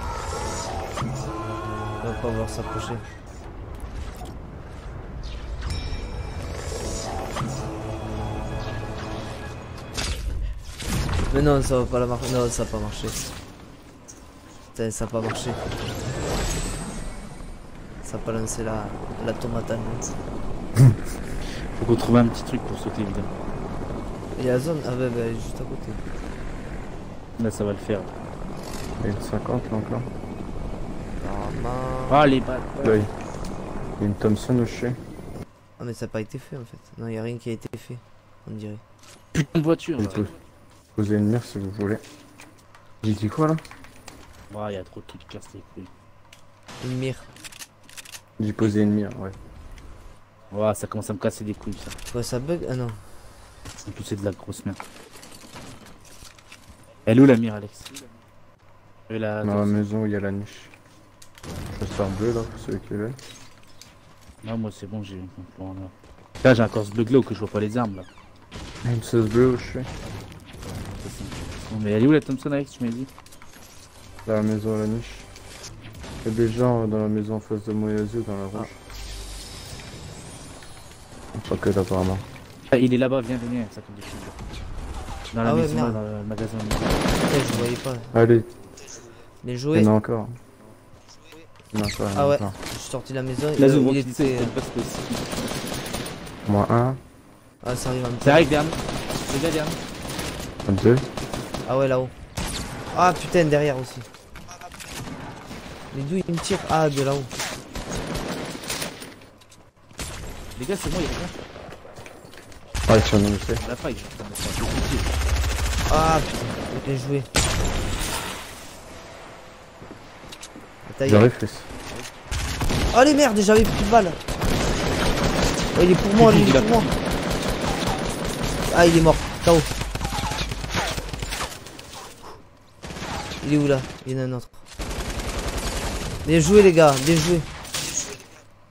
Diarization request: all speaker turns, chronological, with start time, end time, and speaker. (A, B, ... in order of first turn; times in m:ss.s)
0:02.0-0:03.1 A
0:11.3-0:13.3 A
0:14.7-0:15.6 A
0:18.0-0:20.1 A
0:21.7-0:23.3 B
0:24.4-0:26.0 A
0:27.4-0:28.1 B
0:29.0-0:30.1 C
0:31.2-0:32.2 A
0:32.1-0:33.0 B
0:32.8-0:33.1 C
0:34.0-0:35.0 C
0:35.8-0:38.8 A
0:39.3-0:40.3 B
0:40.0-0:40.4 C
0:41.0-0:42.0 C
0:43.0-0:43.6 C
0:44.5-0:45.9 B
0:46.8-0:47.3 A
0:48.4-0:49.4 C
0:50.5-0:52.0 B
0:52.1-0:53.0 A
0:53.8-0:54.8 B
0:57.0-0:58.0 B
0:59.1-0:59.8 B
0:59.4-1:00.7 C
1:01.7-1:03.2 C
1:04.4-1:08.1 B
1:08.8-1:09.9 C
1:11.0-1:13.1 B
1:14.3-1:15.3 C
1:16.2-1:18.8 C
1:21.4-1:22.3 C
1:22.7-1:24.4 B
1:25.3-1:27.7 B
1:25.4-1:26.0 A
1:27.2-1:28.1 A
1:28.1-1:28.5 C
1:29.4-1:29.9 A
1:29.7-1:30.4 C
1:31.7-1:32.6 C
1:32.1-1:34.6 A
1:33.6-1:35.4 B
1:36.5-1:37.0 C
1:37.6-1:38.5 A
1:38.2-1:39.8 B
1:40.7-1:41.0 C
1:41.6-1:42.1 A
1:42.9-1:44.1 A
1:45.9-1:47.3 A
1:50.6-1:51.3 B
1:52.9-1:53.6 C
1:53.6-1:55.2 B
1:55.9-1:57.3 A
2:00.8-2:01.3 A
2:01.0-2:01.7 C
2:02.9-2:04.2 A
2:05.8-2:06.9 A
2:06.2-2:07.0 B
2:08.7-2:09.7 A
2:13.4-2:14.6 A
2:16.2-2:17.5 A